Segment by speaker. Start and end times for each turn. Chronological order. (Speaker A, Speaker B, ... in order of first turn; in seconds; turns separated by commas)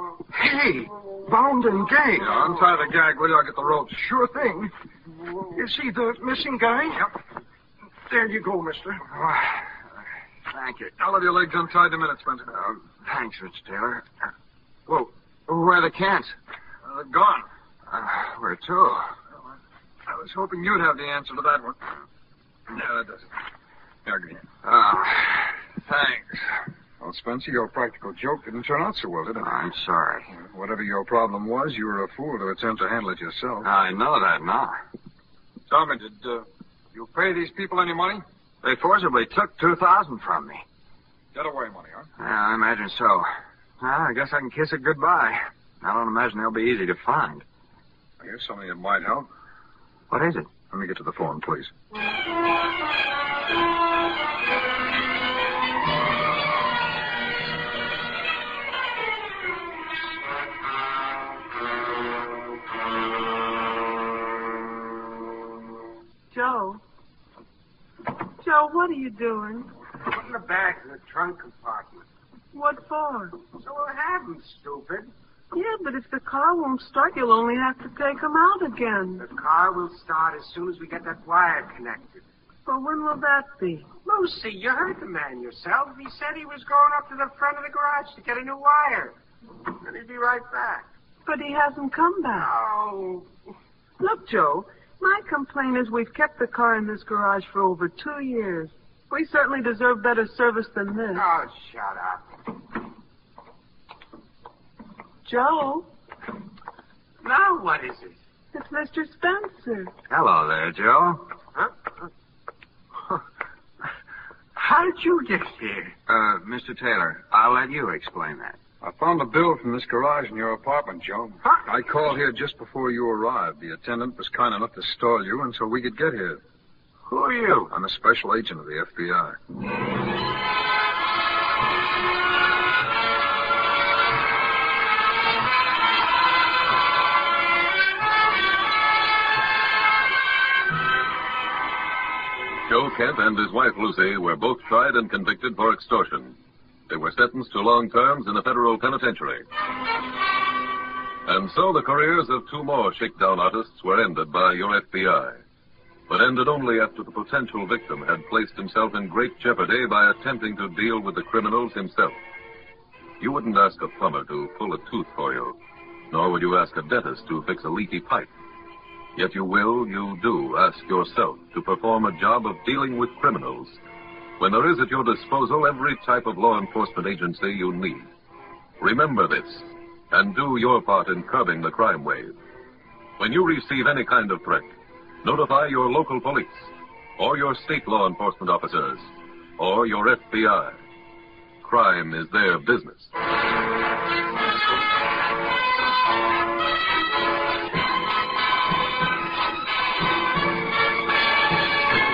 Speaker A: 0.3-2.5, Speaker B: 2.2-4.0, Speaker A: 4.2-4.7, Speaker A: 5.5-7.0, Speaker A: 8.9-9.8, Speaker A: 10.5-10.9, Speaker B: 11.0-12.6, Speaker A: 12.5-14.1, Speaker A: 14.9-16.3, Speaker B: 16.8-17.4, Speaker A: 17.9-19.1, Speaker B: 20.1-21.8, Speaker B: 22.7-23.3, Speaker B: 24.0-24.5, Speaker A: 24.6-26.6, Speaker B: 27.0-29.5, Speaker A: 29.4-30.3, Speaker B: 30.3-33.7, Speaker A: 33.6-34.8, Speaker B: 35.7-38.2, Speaker A: 38.6-40.6, Speaker B: 41.3-42.1, Speaker A: 42.2-43.3, Speaker A: 43.8-47.4, Speaker B: 48.2-49.3, Speaker A: 50.1-50.5, Speaker B: 50.7-51.7, Speaker C: 66.3-66.8, Speaker C: 68.4-69.7, Speaker D: 70.0-72.0, Speaker C: 72.5-73.4, Speaker D: 73.5-75.1, Speaker C: 75.5-79.2, Speaker D: 79.2-82.2, Speaker C: 82.7-83.9, Speaker D: 84.0-89.2, Speaker D: 89.7-90.9, Speaker C: 91.2-92.5, Speaker D: 92.3-93.3, Speaker C: 94.0-101.2, Speaker D: 101.1-102.2, Speaker C: 105.2-105.9, Speaker D: 107.2-108.2, Speaker C: 108.5-109.9, Speaker A: 110.1-111.3, Speaker D: 114.5-115.9, Speaker A: 116.1-118.6, Speaker B: 118.8-126.4, Speaker D: 127.1-127.7, Speaker B: 127.7-129.4, Speaker E: 142.7-146.3, Speaker E: 146.9-149.4, Speaker E: 151.2-155.4, Speaker E: 156.1-162.2, Speaker E: 163.2-165.6, Speaker E: 166.1-168.3, Speaker E: 169.2-173.8, Speaker E: 174.4-178.1, Speaker E: 178.8-182.3, Speaker E: 183.2-184.7, Speaker E: 185.2-190.8, Speaker E: 191.6-193.1